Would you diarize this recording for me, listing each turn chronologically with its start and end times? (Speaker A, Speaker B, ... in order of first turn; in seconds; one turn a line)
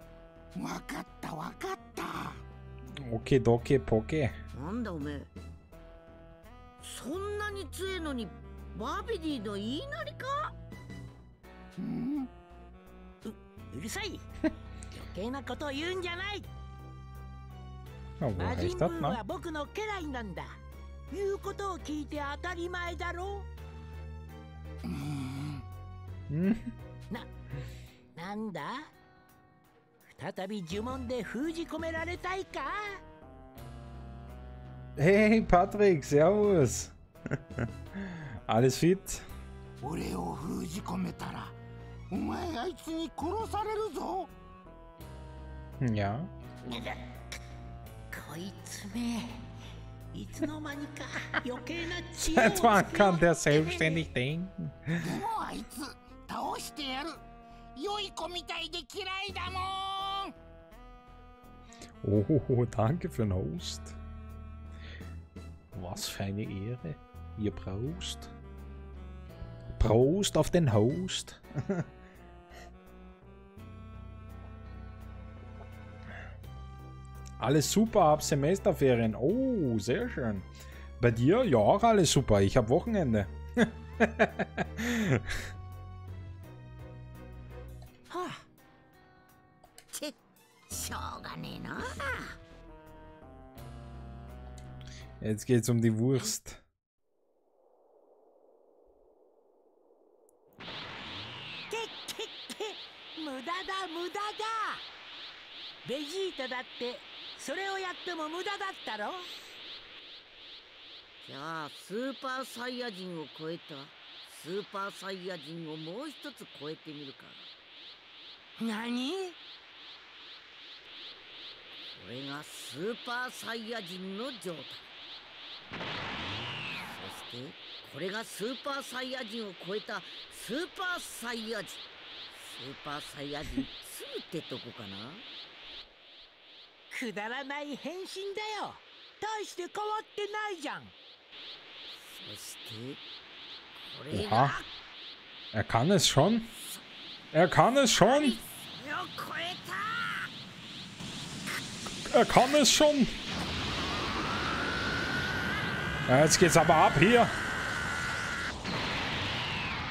Speaker A: 0.6-2.4
Speaker B: 3.0-4.4
Speaker C: 4.5-5.3
Speaker C: 6.8-10.5
Speaker A: 11.8-12.3
Speaker D: 13.2-14.2
Speaker D: 14.9-16.5
Speaker B: 18.2-19.2
Speaker D: 18.4-20.6
Speaker D: 21.1-23.5
Speaker A: 24.8-25.6
Speaker B: 26.3-26.7
Speaker D: 28.1-28.9
Speaker D: 30.1-33.0
Speaker B: 35.0-36.9
Speaker B: 37.6-39.3
Speaker A: 39.8-41.5
Speaker A: 42.1-44.3
Speaker B: 45.8-46.3
Speaker D: 46.7-47.0
Speaker D: 48.1-49.4
Speaker D: 50.1-54.0
Speaker B: 52.2-55.0
Speaker A: 55.0-57.2
Speaker A: 57.8-60.3
Speaker B: 62.0-64.0
Speaker B: 65.7-68.3
Speaker B: 69.7-71.9
Speaker B: 77.4-80.5
Speaker B: 81.0-85.4
Speaker C: 90.7-92.4
Speaker B: 95.2-96.6
Speaker D: 101.7-104.8
Speaker D: 105.8-109.3
Speaker C: 111.2-117.5
Speaker D: 118.6-119.3
Speaker C: 121.9-124.8
Speaker C: 126.9-131.8
Speaker C: 132.3-135.2
Speaker D: 136.9-140.9
Speaker C: 142.0-143.0
Speaker C: 143.8-144.7
Speaker B: 144.1-144.6
Speaker B: 145.5-146.5
Speaker B: 147.3-148.4
Speaker C: 148.0-150.3
Speaker B: 152.1-153.1
Speaker B: 156.1-157.3